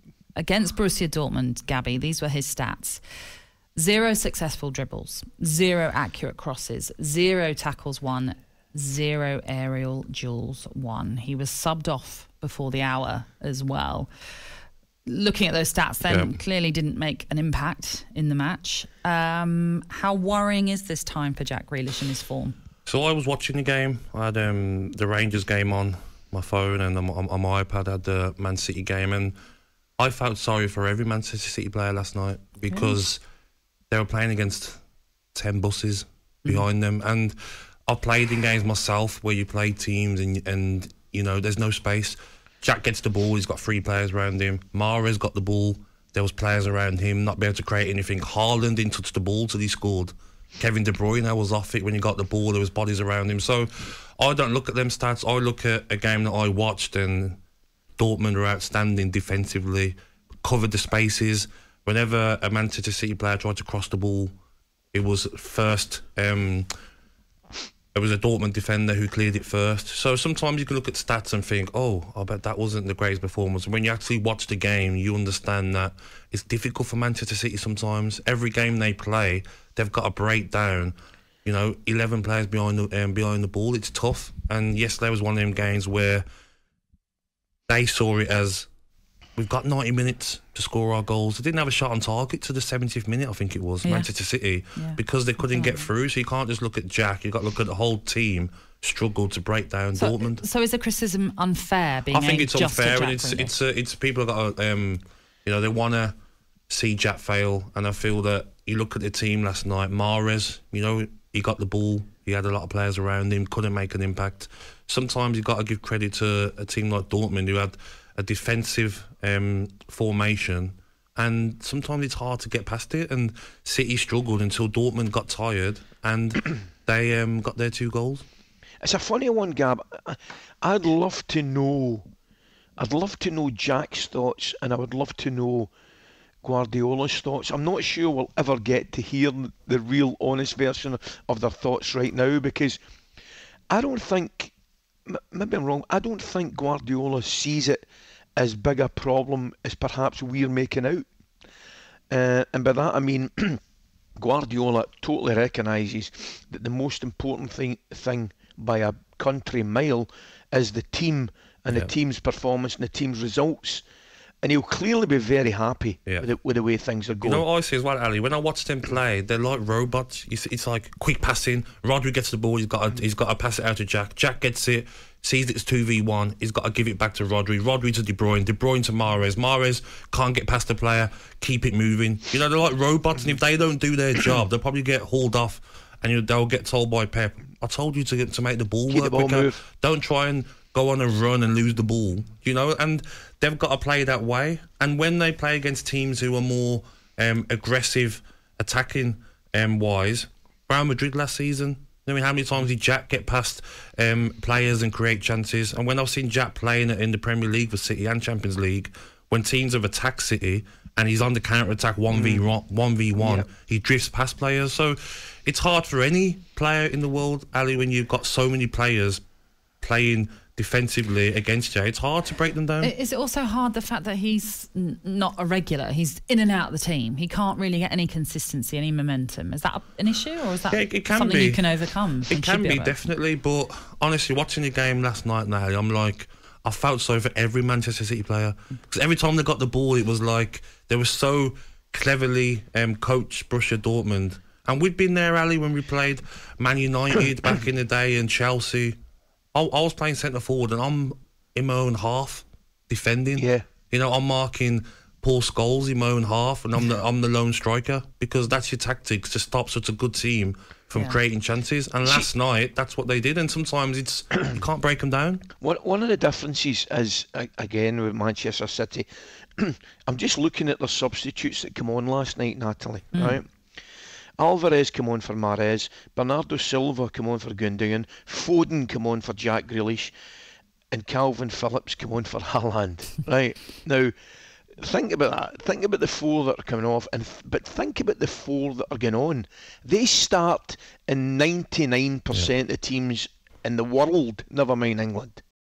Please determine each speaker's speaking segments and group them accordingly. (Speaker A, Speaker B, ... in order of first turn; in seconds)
Speaker A: 0.4-3.0, 3.8-14.1, 15.1-22.6, 93.8-94.1, 94.8-95.9, 100.0-103.5, 222.8-233.0
Speaker B: 16.1-16.4, 22.9-29.4, 30.0-33.2, 33.9-34.8, 35.3-57.4, 58.0-64.3, 64.9-66.7, 67.9-86.2, 87.7-88.7, 89.4-100.4, 102.1-106.1, 106.7-128.2, 167.2-219.2, 219.8-222.9, 230.7-231.7, 232.3-248.9, 249.5-265.4
Speaker C: 128.8-132.1, 132.8-135.7, 136.4-142.8, 143.7-144.5, 145.1-147.8, 148.4-151.1, 152.1-153.6, 154.2-163.8, 164.4-167.4, 188.9-189.6, 212.1-212.5, 213.2-213.5, 253.4-253.7, 265.6-269.1, 269.6-273.5, 274.4-280.1, 280.9-284.1, 284.8-295.4